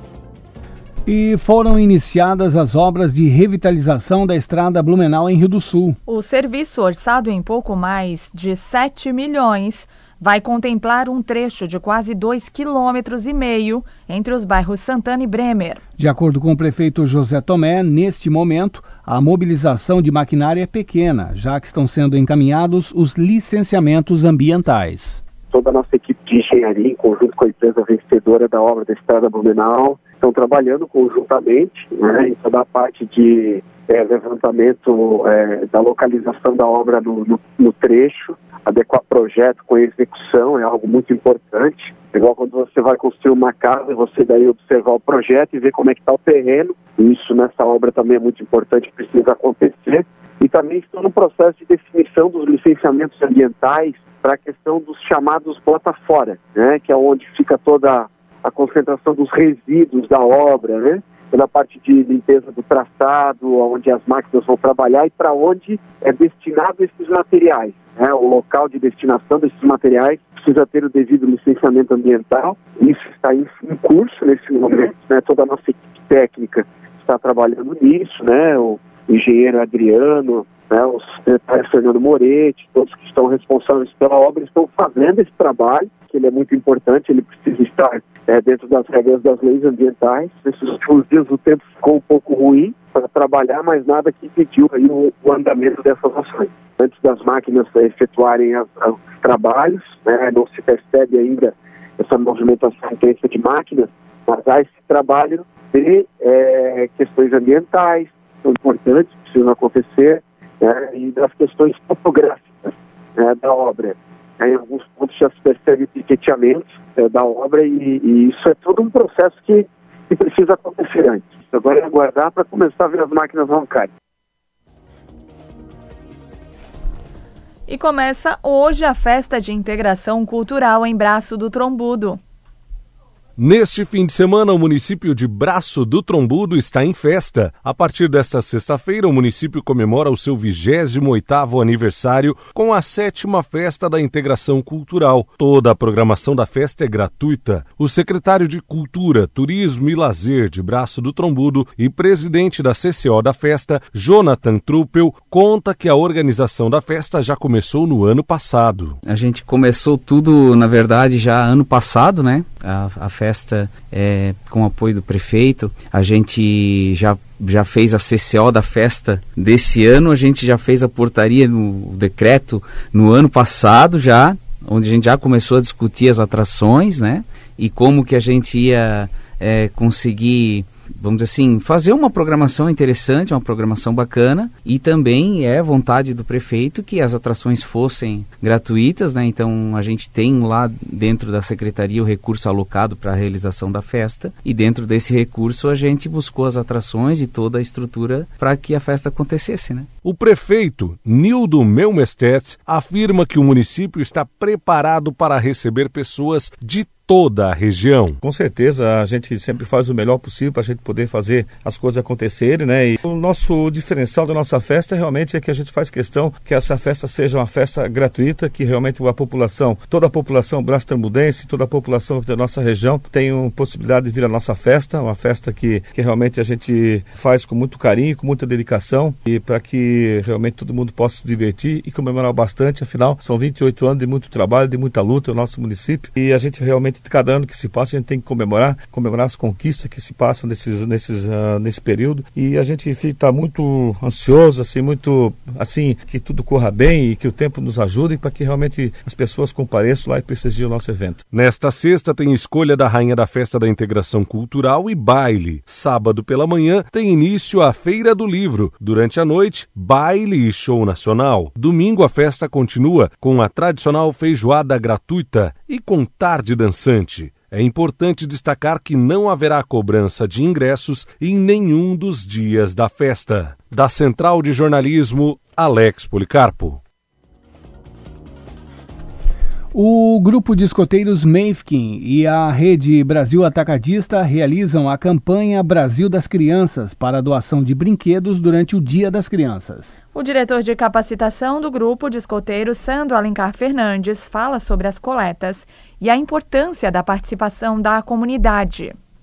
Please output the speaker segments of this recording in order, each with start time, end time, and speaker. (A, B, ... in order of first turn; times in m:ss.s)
0:01.0-0:06.0 A
0:06.0-0:15.8 B
0:16.0-0:25.2 A
0:25.5-2:03.9 C
2:07.7-2:12.2 B
2:13.4-2:39.0 D
2:39.0-3:19.9 E
3:20.0-3:28.2 D
3:28.2-4:11.2 F
4:11.3-4:36.8 D
4:39.7-4:50.0 A
4:50.1-4:58.9 B